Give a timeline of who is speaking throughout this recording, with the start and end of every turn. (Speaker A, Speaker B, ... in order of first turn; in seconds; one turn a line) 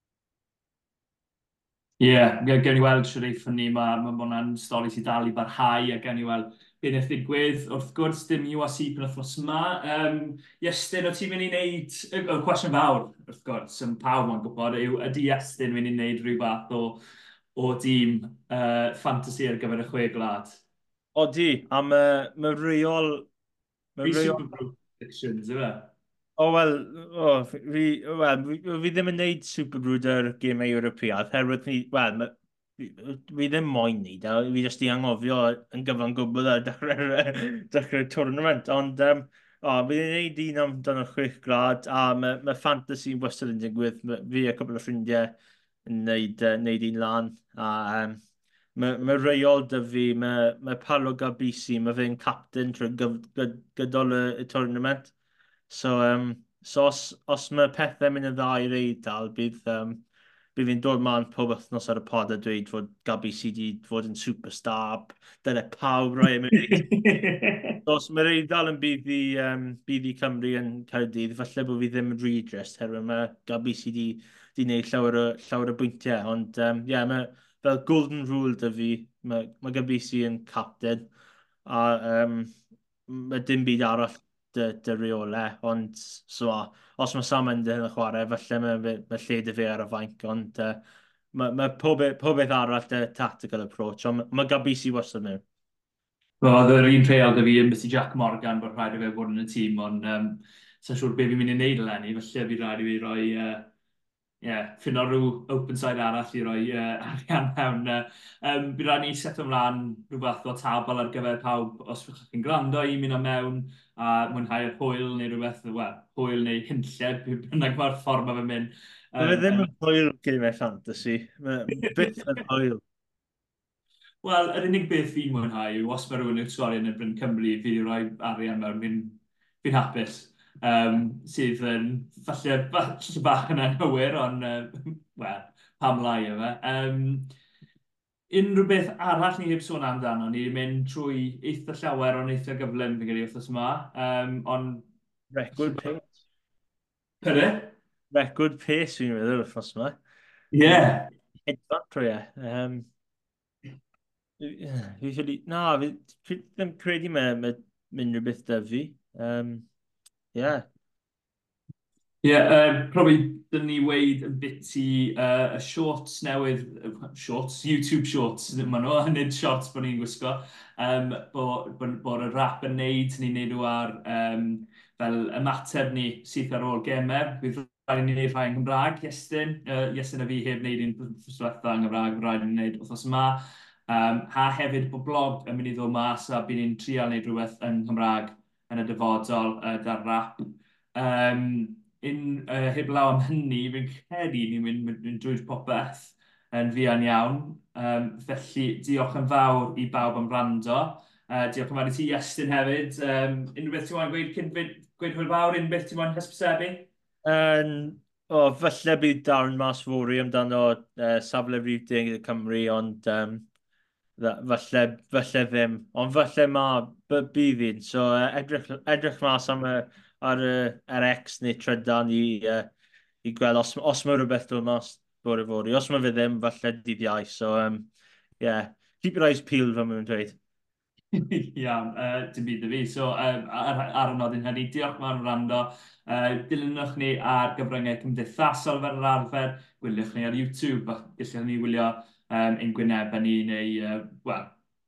Speaker A: 2.0-17.0
Speaker A: 17.5-20.6
Speaker B: 21.1-23.3
Speaker B: 24.0-24.4
Speaker A: 24.0-25.9
Speaker B: 26.4-48.2
Speaker B: 48.7-55.1
Speaker B: 55.7-60.0
Speaker B: 60.5-66.9
Speaker A: 66.5-67.8
Speaker B: 67.8-81.1
Speaker B: 81.6-82.5
Speaker B: 83.1-90.8
Speaker B: 91.3-95.4
Speaker A: 96.4-103.7
Speaker A: 104.4-119.7
Speaker B: 119.2-122.8
Speaker A: 124.2-137.3
Speaker A: 138.3-144.8
Speaker B: 145.3-146.1
Speaker A: 145.5-145.9
Speaker A: 147.2-147.7
Speaker B: 148.1-150.0
Speaker A: 150.5-151.1
Speaker B: 150.6-150.9
Speaker B: 151.4-152.9
Speaker B: 154.4-159.7
Speaker B: 160.3-160.7
Speaker A: 162.2-206.9
Speaker B: 207.2-213.4
Speaker B: 214.2-222.7
Speaker B: 223.2-230.4
Speaker A: 231.1-244.5